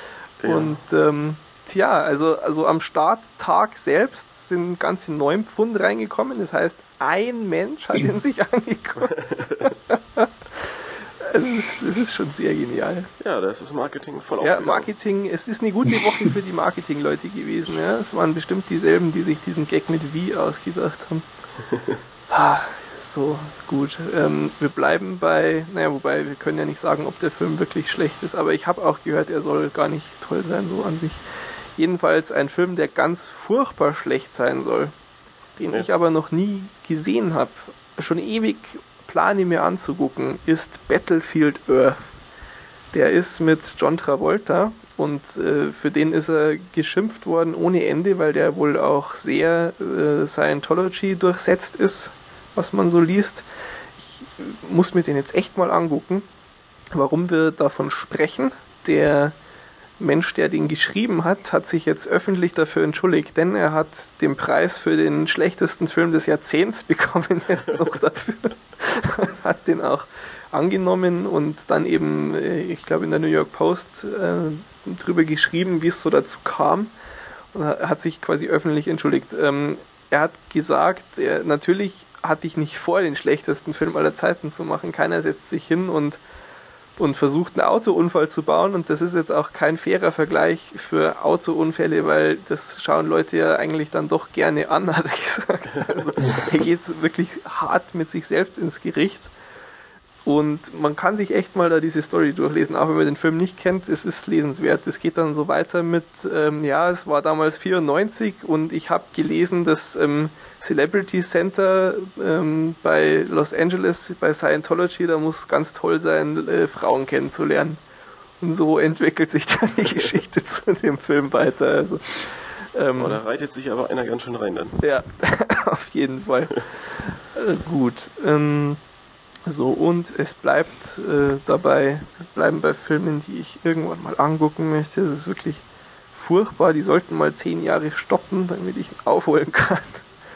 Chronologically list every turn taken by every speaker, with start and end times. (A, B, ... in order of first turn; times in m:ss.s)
0:00.4-0:00.8 A
0:00.4-0:13.1 B
0:09.0-0:09.7 A
0:13.2-0:14.9 A
0:14.4-0:21.2 B
0:22.3-0:31.2 B
0:31.8-0:34.9 B
0:35.6-0:42.0 B
0:42.9-0:53.4 B
0:54.0-0:56.2 B
0:56.9-0:59.3 B
1:00.0-1:16.9 B
1:17.5-1:26.2 B
1:27.0-1:39.3 B
1:40.2-1:57.8 B
1:58.4-2:03.2 B
2:03.0-2:04.8 A
2:04.8-2:08.8 B
2:09.4-2:15.6 B
2:16.1-2:20.0 B